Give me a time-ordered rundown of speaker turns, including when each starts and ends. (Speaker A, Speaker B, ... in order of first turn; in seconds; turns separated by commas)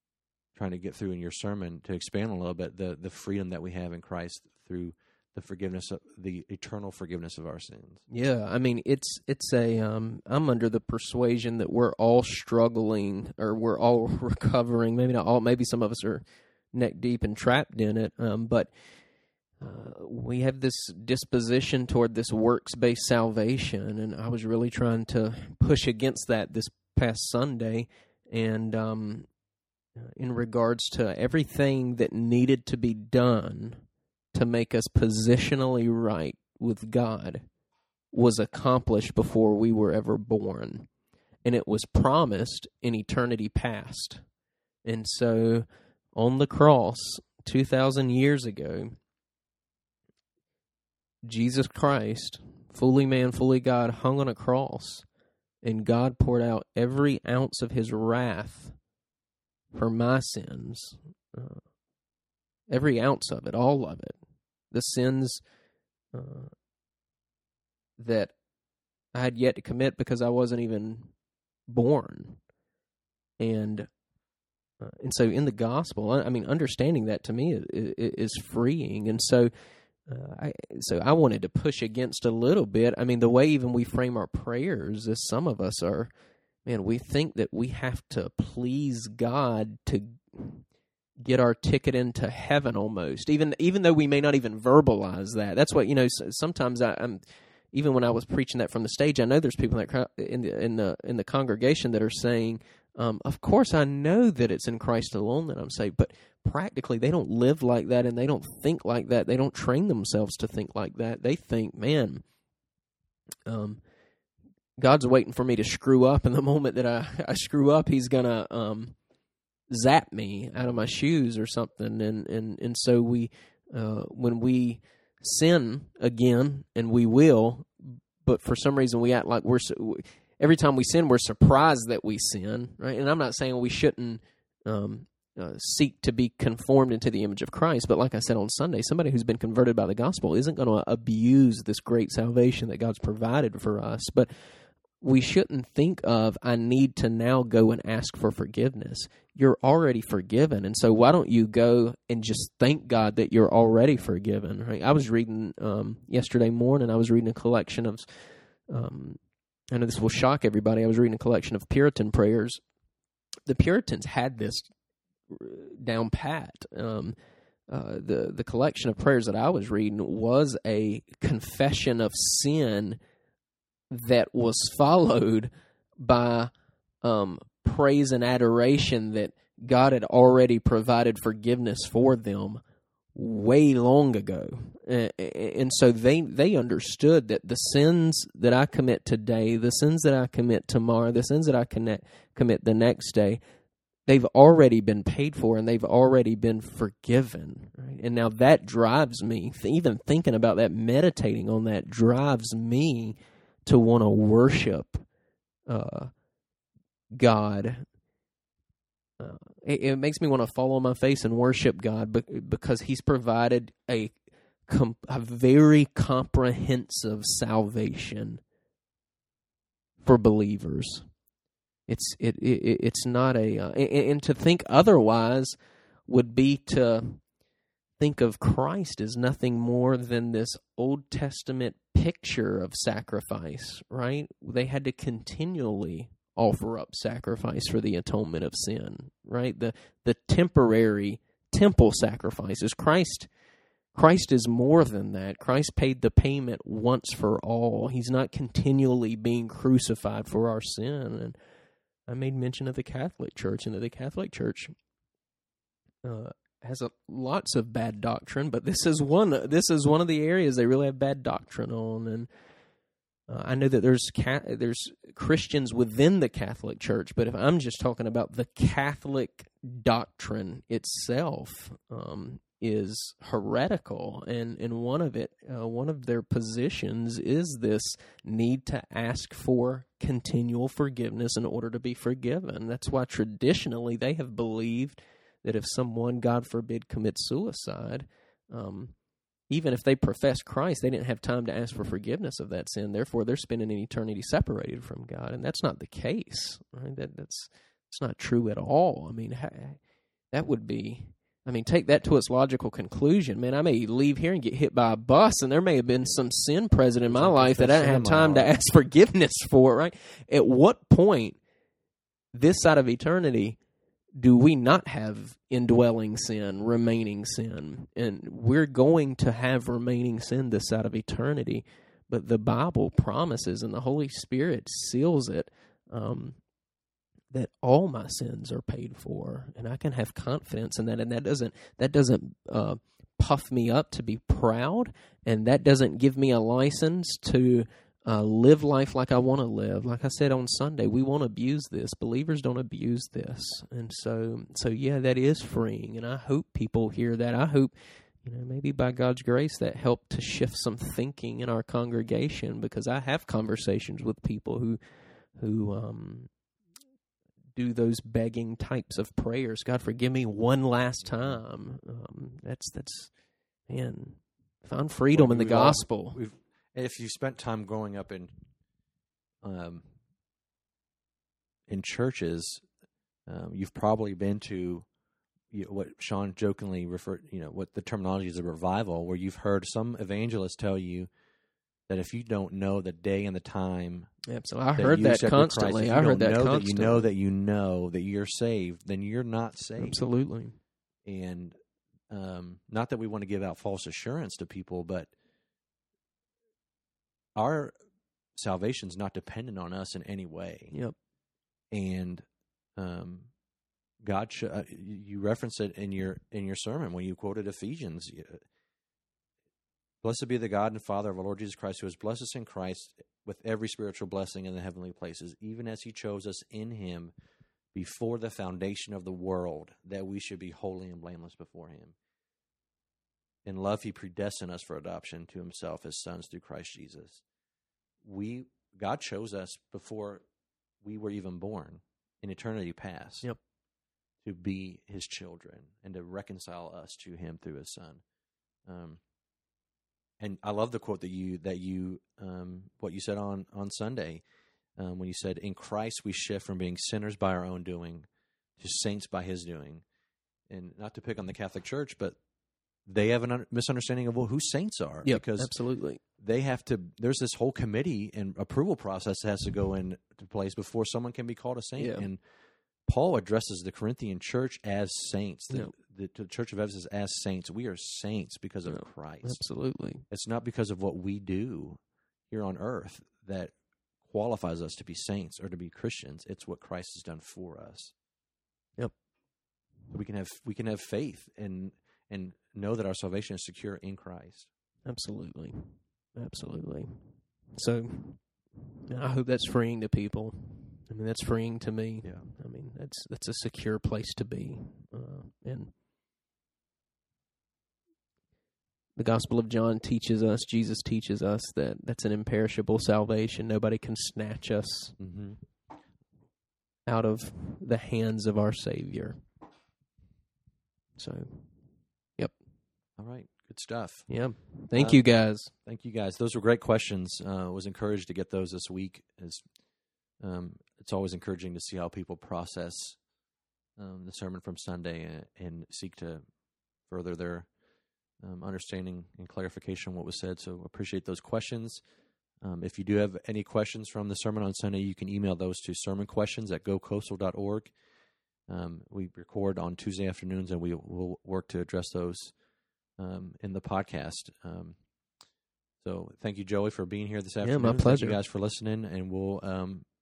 Speaker A: 0.6-8.0, Speaker B: 8.1-18.7, Speaker B: 19.6-29.3, Speaker B: 30.0-33.8, Speaker B: 34.3-37.4, Speaker B: 38.1-40.9, Speaker B: 41.4-44.2, Speaker B: 44.9-49.0, Speaker B: 51.2-55.1, Speaker B: 55.6-58.8, Speaker B: 59.7-61.6, Speaker B: 62.7-64.2, Speaker B: 64.7-65.4, Speaker B: 66.1-66.5, Speaker B: 68.0-68.3, Speaker B: 69.1-71.1, Speaker B: 71.7-72.4, Speaker B: 73.4-73.9, Speaker B: 74.8-79.5, Speaker B: 80.1-86.1, Speaker B: 86.7-90.6, Speaker B: 91.2-97.2, Speaker B: 97.7-112.2, Speaker B: 113.5-113.8, Speaker B: 114.8-119.0, Speaker B: 119.7-158.2, Speaker B: 158.7-159.2, Speaker B: 159.7-162.6, Speaker B: 163.5-164.7, Speaker B: 165.3-167.2, Speaker B: 167.7-173.0, Speaker B: 173.9-176.5, Speaker B: 177.0-182.6, Speaker B: 183.2-193.4, Speaker B: 194.1-205.0, Speaker B: 205.7-206.1, Speaker B: 207.2-207.8, Speaker B: 209.2-218.4, Speaker B: 220.0-221.1, Speaker B: 221.9-225.6, Speaker B: 226.1-227.2, Speaker B: 228.0-243.3, Speaker B: 243.9-251.4, Speaker B: 252.1-254.7, Speaker B: 256.0-262.3, Speaker B: 263.3-288.9, Speaker B: 289.5-299.8, Speaker B: 300.3-311.4, Speaker A: 307.1-308.5, Speaker B: 312.3-313.6, Speaker B: 314.2-326.4, Speaker B: 327.3-354.8, Speaker B: 355.4-356.3, Speaker B: 357.6-363.1, Speaker B: 363.7-366.2, Speaker A: 365.1-368.3, Speaker A: 369.4-369.9, Speaker A: 371.7-372.6, Speaker A: 373.3-374.9, Speaker A: 375.5-381.1, Speaker A: 381.9-384.1, Speaker B: 384.3-387.1, Speaker A: 384.8-390.0, Speaker B: 389.8-390.6, Speaker A: 391.1-391.6, Speaker A: 392.1-395.1, Speaker A: 397.4-397.7, Speaker A: 398.4-400.8, Speaker A: 401.7-402.2, Speaker A: 402.8-403.3, Speaker A: 404.0-408.4, Speaker A: 410.0-417.1, Speaker A: 417.7-422.0, Speaker A: 423.4-427.2, Speaker A: 428.0-430.2, Speaker A: 430.8-433.3, Speaker A: 434.2-438.0, Speaker A: 438.7-439.0, Speaker A: 440.2-444.2, Speaker A: 444.8-448.1, Speaker A: 448.6-449.8, Speaker A: 450.5-452.2, Speaker A: 452.9-455.5, Speaker B: 455.1-456.0, Speaker A: 456.2-462.2, Speaker B: 461.8-462.1, Speaker A: 462.9-469.4, Speaker B: 468.7-470.1, Speaker A: 470.1-473.5, Speaker A: 474.1-477.9, Speaker A: 479.9-484.5, Speaker B: 484.9-487.0, Speaker B: 487.6-488.2, Speaker B: 488.8-495.7, Speaker A: 492.0-492.3, Speaker B: 499.0-505.0, Speaker A: 505.0-505.4, Speaker B: 506.9-509.2, Speaker B: 511.0-511.5, Speaker A: 513.0-514.1, Speaker B: 514.1-515.5, Speaker A: 514.8-515.0, Speaker A: 515.6-519.4, Speaker A: 520.2-523.0, Speaker A: 523.8-526.2, Speaker A: 526.9-527.5, Speaker A: 528.2-531.8, Speaker A: 532.4-537.7, Speaker A: 538.5-542.4, Speaker A: 543.0-544.8, Speaker A: 545.8-549.9, Speaker B: 547.4-548.2